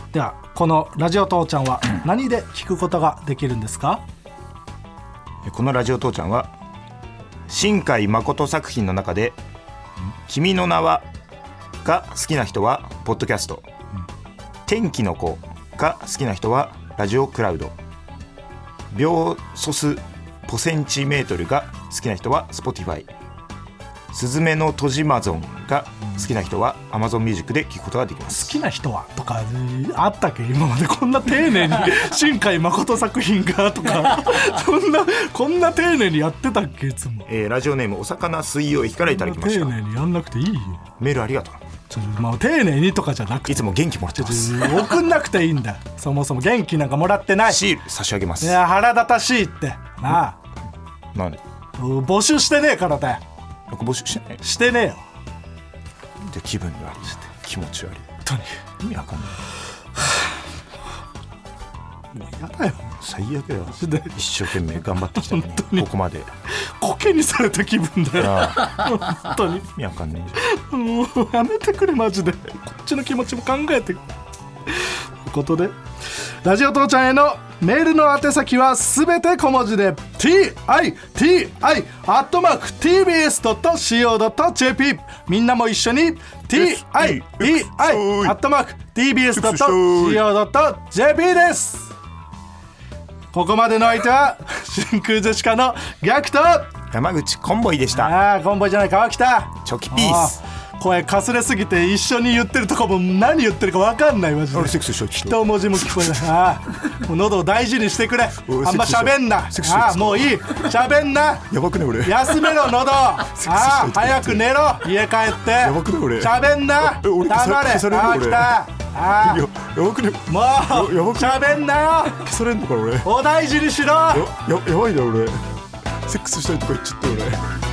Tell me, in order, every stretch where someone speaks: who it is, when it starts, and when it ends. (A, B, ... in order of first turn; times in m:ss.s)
0:00.1-0:04.0 A
0:05.4-0:06.5 B
0:07.5-0:09.4 B
0:10.3-0:11.0 B
0:11.8-0:13.7 B
0:14.6-0:17.7 B
0:18.9-0:23.1 B
0:24.1-0:28.5 B
0:28.3-0:37.2 A
0:37.3-0:39.7 B
0:39.1-0:40.8 A
0:41.0-0:41.6 B
0:41.9-0:47.6 A
0:43.4-0:45.0 B
0:47.4-0:48.6 B
0:48.4-0:50.4 A
0:51.1-0:51.4 B
0:51.8-0:53.2 A
0:53.7-0:54.4 B
0:54.4-0:55.0 A
0:56.2-0:58.1 B
0:58.2-0:58.6 A
0:58.8-0:59.4 B
1:02.1-1:02.9 A
1:03.0-1:06.3 B
1:03.7-1:04.1 A
1:05.1-1:05.9 A
1:06.5-1:09.6 A
1:08.2-1:08.8 B
1:09.7-1:10.4 B
1:10.4-1:14.0 A
1:14.7-1:31.9 A
1:26.5-1:28.4 B
1:29.3-1:30.2 B
1:33.3-1:36.7 A
1:36.9-1:38.1 B
1:37.9-1:59.4 A
1:39.6-1:40.4 B
1:44.5-1:46.2 B
1:48.4-1:50.7 B
1:51.5-1:52.7 B
1:53.2-1:54.4 B
1:55.6-2:01.5 B
2:00.3-2:02.3 A
2:02.1-2:03.1 B
2:03.0-2:04.3 A
2:04.1-2:05.4 B
2:06.0-2:07.5 B